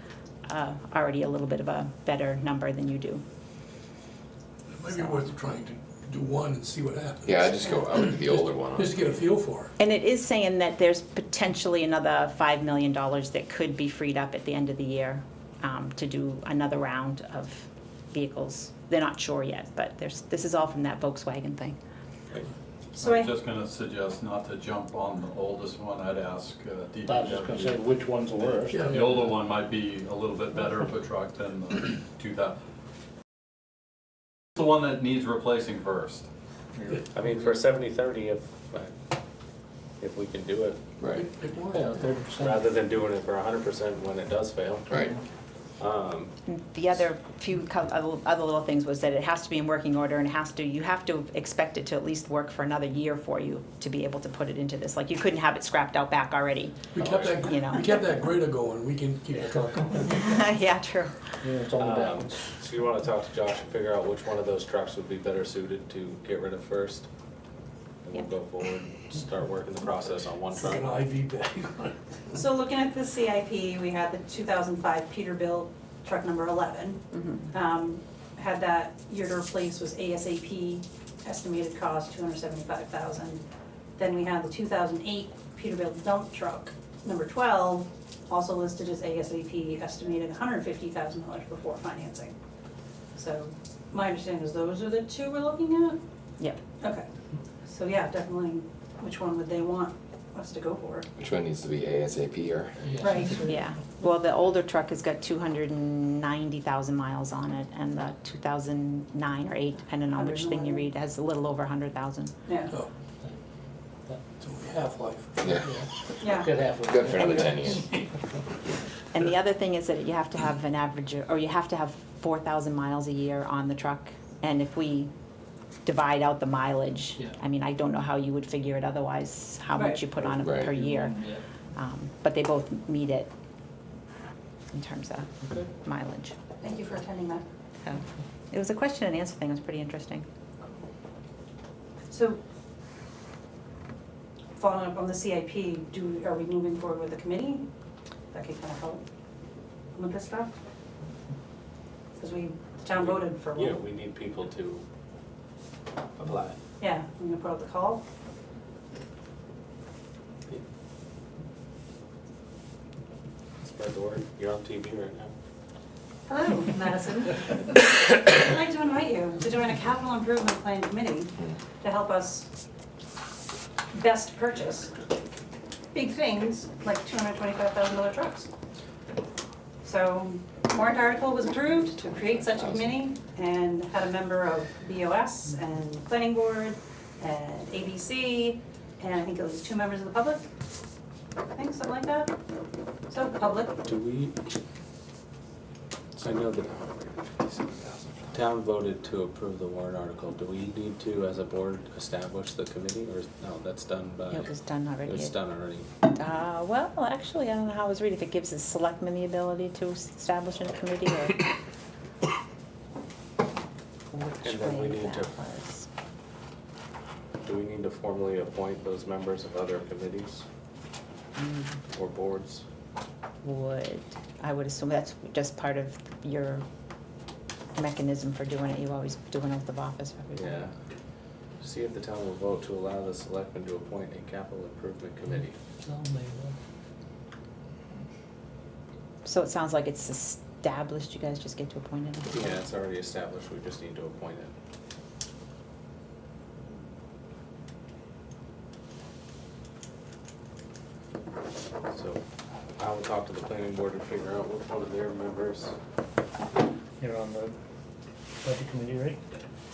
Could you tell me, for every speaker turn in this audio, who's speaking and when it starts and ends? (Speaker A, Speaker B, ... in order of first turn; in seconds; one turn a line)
Speaker A: 0.5-3.2
Speaker B: 4.7-9.7
Speaker C: 7.2-9.0
Speaker A: 9.8-21.8
Speaker D: 23.0-23.3
Speaker E: 23.0-32.6
Speaker F: 27.1-29.1
Speaker B: 28.7-29.2
Speaker E: 34.6-36.3
Speaker G: 37.1-38.9
Speaker G: 40.0-40.8
Speaker C: 41.0-41.2
Speaker B: 41.1-41.9
Speaker F: 41.7-42.6
Speaker G: 42.4-45.1
Speaker G: 45.8-46.3
Speaker A: 46.5-56.8
Speaker B: 57.0-60.3
Speaker G: 57.0-57.5
Speaker A: 57.4-58.0
Speaker A: 60.1-61.4
Speaker F: 61.4-62.4
Speaker G: 61.8-67.1
Speaker G: 68.0-71.0
Speaker B: 70.6-72.0
Speaker D: 72.3-83.4
Speaker A: 77.2-77.5
Speaker D: 84.0-92.3
Speaker D: 93.2-96.0
Speaker D: 96.8-97.1
Speaker D: 97.7-101.1
Speaker C: 101.2-103.0
Speaker D: 103.0-103.6
Speaker A: 103.5-112.3
Speaker D: 110.1-110.9
Speaker D: 112.5-112.7
Speaker B: 114.4-116.1
Speaker C: 115.4-115.7
Speaker D: 116.2-116.6
Speaker F: 116.4-117.8
Speaker C: 116.8-118.0
Speaker A: 119.1-125.1
Speaker A: 125.8-133.3
Speaker D: 129.8-130.0
Speaker C: 130.4-130.8
Speaker F: 130.7-131.4
Speaker A: 134.7-136.3
Speaker F: 135.4-135.7
Speaker D: 136.6-137.4
Speaker A: 137.8-140.2
Speaker D: 142.1-142.4
Speaker D: 144.6-147.7
Speaker D: 148.3-149.0
Speaker D: 149.9-150.5
Speaker D: 152.2-153.8
Speaker G: 152.9-154.8
Speaker G: 156.2-156.6
Speaker D: 156.8-158.0
Speaker G: 163.6-165.3
Speaker D: 166.3-172.5
Speaker D: 173.9-174.9
Speaker D: 175.9-178.5
Speaker D: 179.8-190.4
Speaker D: 191.5-192.3
Speaker D: 193.1-193.8
Speaker G: 193.8-194.4
Speaker G: 196.2-204.5
Speaker A: 204.3-205.3
Speaker G: 205.1-205.9
Speaker A: 206.1-211.5
Speaker A: 214.1-215.9
Speaker G: 214.4-215.3
Speaker G: 217.4-220.4
Speaker A: 221.4-221.8
Speaker G: 221.9-222.6
Speaker A: 223.4-226.6
Speaker A: 227.8-230.6
Speaker G: 230.3-230.7
Speaker G: 231.6-235.6
Speaker F: 235.8-236.5
Speaker A: 239.2-242.6
Speaker G: 242.3-244.5
Speaker G: 251.9-252.2
Speaker G: 252.8-255.7
Speaker F: 257.0-257.5
Speaker F: 258.4-259.2